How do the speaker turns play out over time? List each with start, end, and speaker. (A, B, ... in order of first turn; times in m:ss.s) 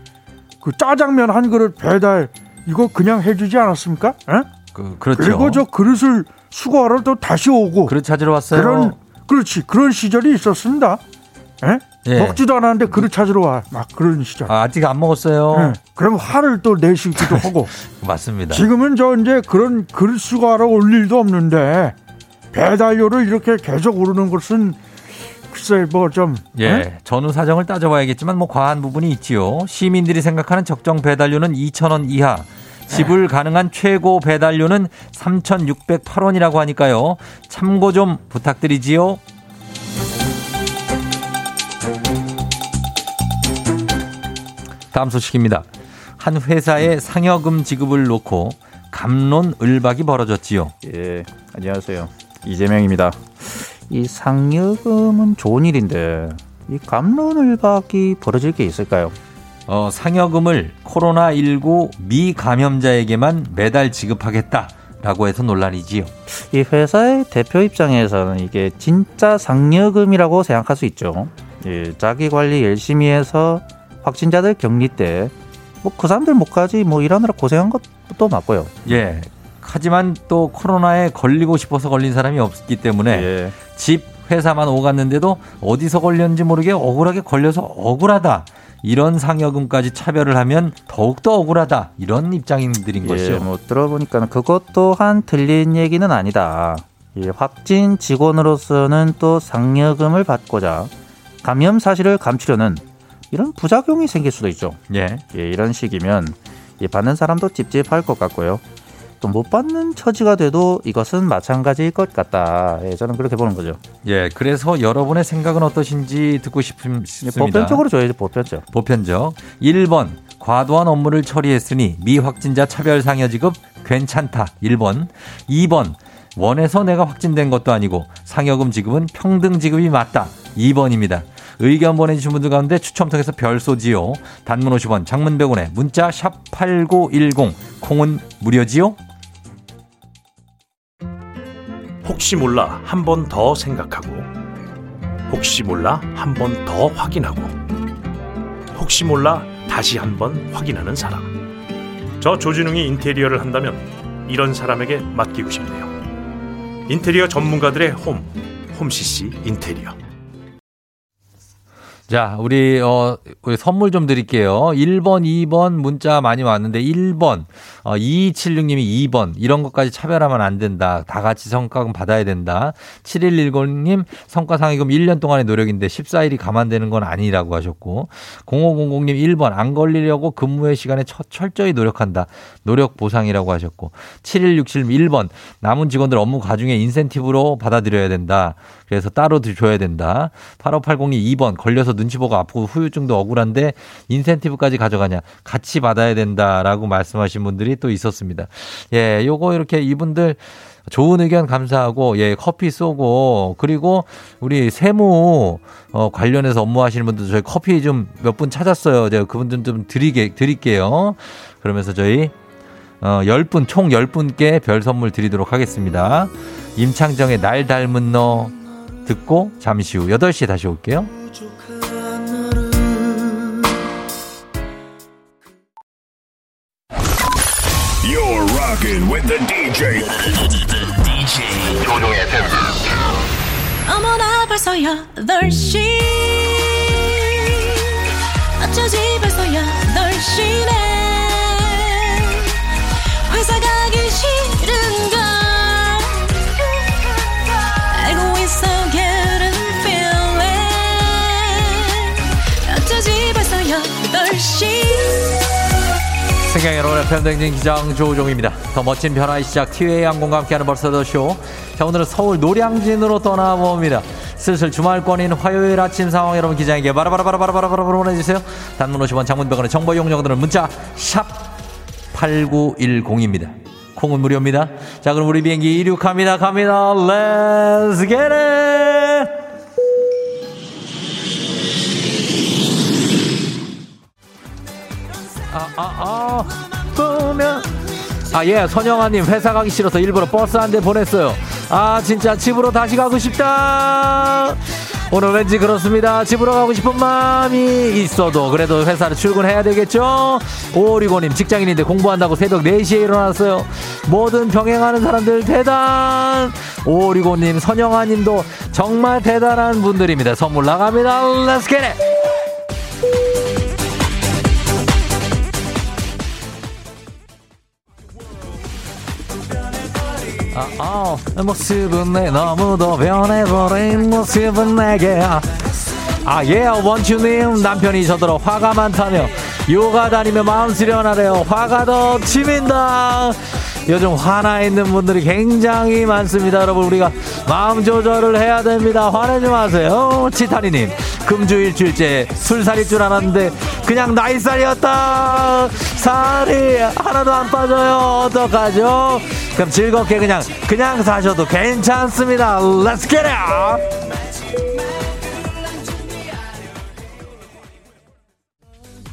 0:00.6-0:04.5 A
0:04.7-0:05.6 B
0:05.2-0:08.0 A
0:07.9-0:08.9 B
0:08.5-0:11.0 A
0:11.6-0:14.5 A
0:12.0-0:13.1 B
0:14.5-0:15.8 B
0:15.5-0:17.7 A
0:17.8-0:18.7 B
0:18.5-0:22.0 A
0:22.5-0:24.8 A
0:25.5-0:26.8 A
0:26.6-0:39.2 B
0:44.9-0:45.7 B
0:46.2-0:50.8 B
0:50.8-0:59.2 C
0:59.7-1:06.1 B
1:06.3-1:15.3 C
1:15.8-1:18.8 C
1:18.8-1:33.5 B
1:23.1-1:23.6 C
1:33.0-1:40.9 C
1:41.4-1:48.6 C
1:44.9-1:45.2 B
1:49.2-1:53.8 C
1:54.0-1:57.8 B
1:57.2-1:58.6 C
1:58.7-2:19.0 B
2:22.0-2:24.3 D
2:25.3-2:27.6 D
2:28.8-2:31.3 D
2:32.2-2:35.9 D
2:36.9-2:40.0 D
2:42.1-3:32.3 B
3:33.0-3:41.1 B
3:48.0-3:50.9 E
3:51.7-3:52.4 E
3:53.9-3:57.9 F
3:58.6-4:02.5 F
4:03.3-4:15.4 F
4:16.4-4:31.6 B
4:32.1-4:39.4 B
4:45.5-5:12.0 B
5:20.5-5:53.9 B